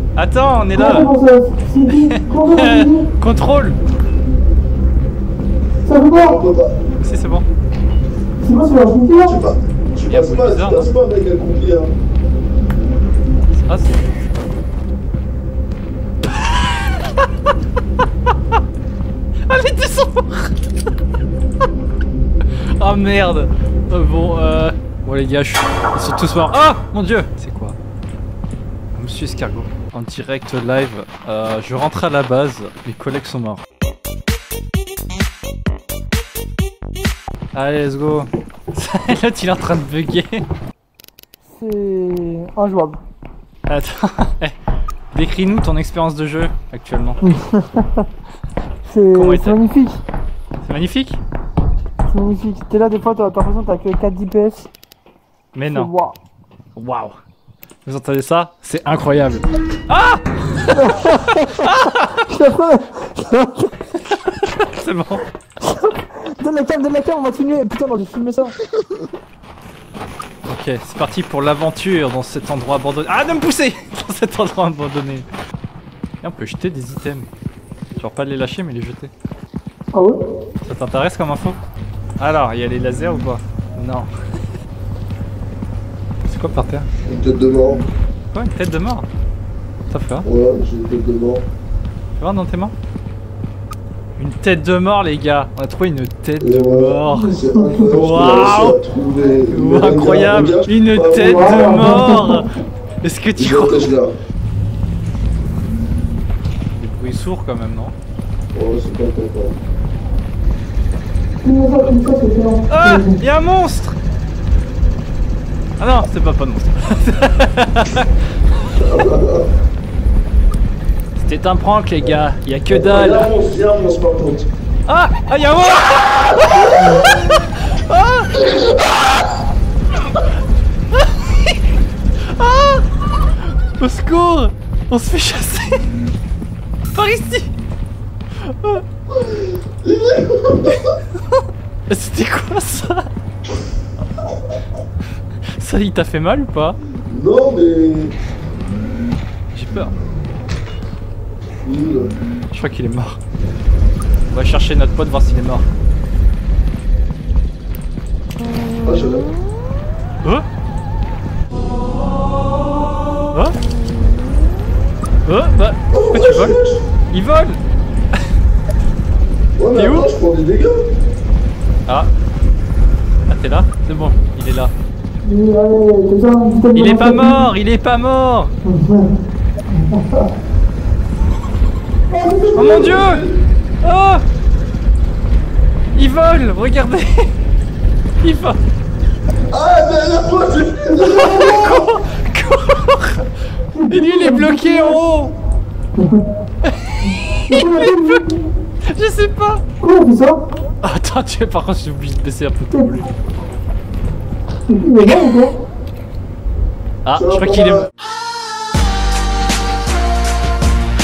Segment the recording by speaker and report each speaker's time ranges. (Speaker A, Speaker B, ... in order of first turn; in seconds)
Speaker A: 0.2-1.1, 1.9-3.8, 7.0-7.5, 10.1-10.9, 13.5-14.0, 16.4-17.1, 19.5-20.6, 22.8-27.8, 28.9-33.6, 37.5-40.5, 43.7-44.6, 45.1-47.2, 49.1-49.6, 50.6-51.2, 55.5-55.9, 56.8-57.2, 57.9-60.9, 61.5-62.3, 64.1-65.2, 70.5-75.3, 76.2-77.3, 78.0-79.1, 80.7-81.6, 82.2-84.1, 86.2-86.9, 88.3-89.1, 89.9-90.3, 92.2-92.7, 94.2-97.3, 97.9-98.8, 99.5-102.5, 103.0-103.9, 106.8-108.0, 112.7-114.0, 115.8-118.1, 121.2-123.3, 124.9-128.4, 130.9-131.6, 132.2-132.8, 133.4-135.9, 136.9-137.5, 138.4-138.8, 140.7-143.1, 145.6-146.8, 149.5-149.9, 152.5-153.2, 154.3-155.7, 163.3-163.6, 165.3-166.6, 167.1-167.6, 169.7-170.1, 173.3-174.7, 176.7-178.5, 182.6-183.2, 183.8-184.2, 185.9-187.3, 188.2-188.6, 191.1-193.3, 193.9-195.3, 196.6-198.2, 198.8-199.6, 200.8-203.2, 207.1-207.9
Speaker B: 0.8-3.1, 5.8-6.4, 8.4-9.4, 41.6-43.0, 47.2-48.1, 48.9-50.0, 52.1-54.7, 55.7-56.2, 60.7-63.7, 65.6-68.6, 79.9-80.2, 97.3-97.8, 101.1-102.5, 111.4-113.2, 175.2-177.5, 178.7-179.2, 179.7-180.3, 182.1-182.9, 193.8-195.0, 196.0-196.2, 197.3-198.4, 199.8-200.4, 204.7-205.6
Speaker C: 6.2-6.9, 9.2-11.9, 68.6-69.1, 87.0-87.8, 90.2-91.5, 96.4-101.8, 103.4-104.1, 108.5-109.6, 118.7-119.5, 122.7-124.5, 128.4-129.1, 139.1-140.9, 147.1-148.2, 151.6-152.1, 158.8-159.3, 165.9-166.8, 169.6-170.8, 182.6-183.4, 189.5-191.8, 207.1-207.9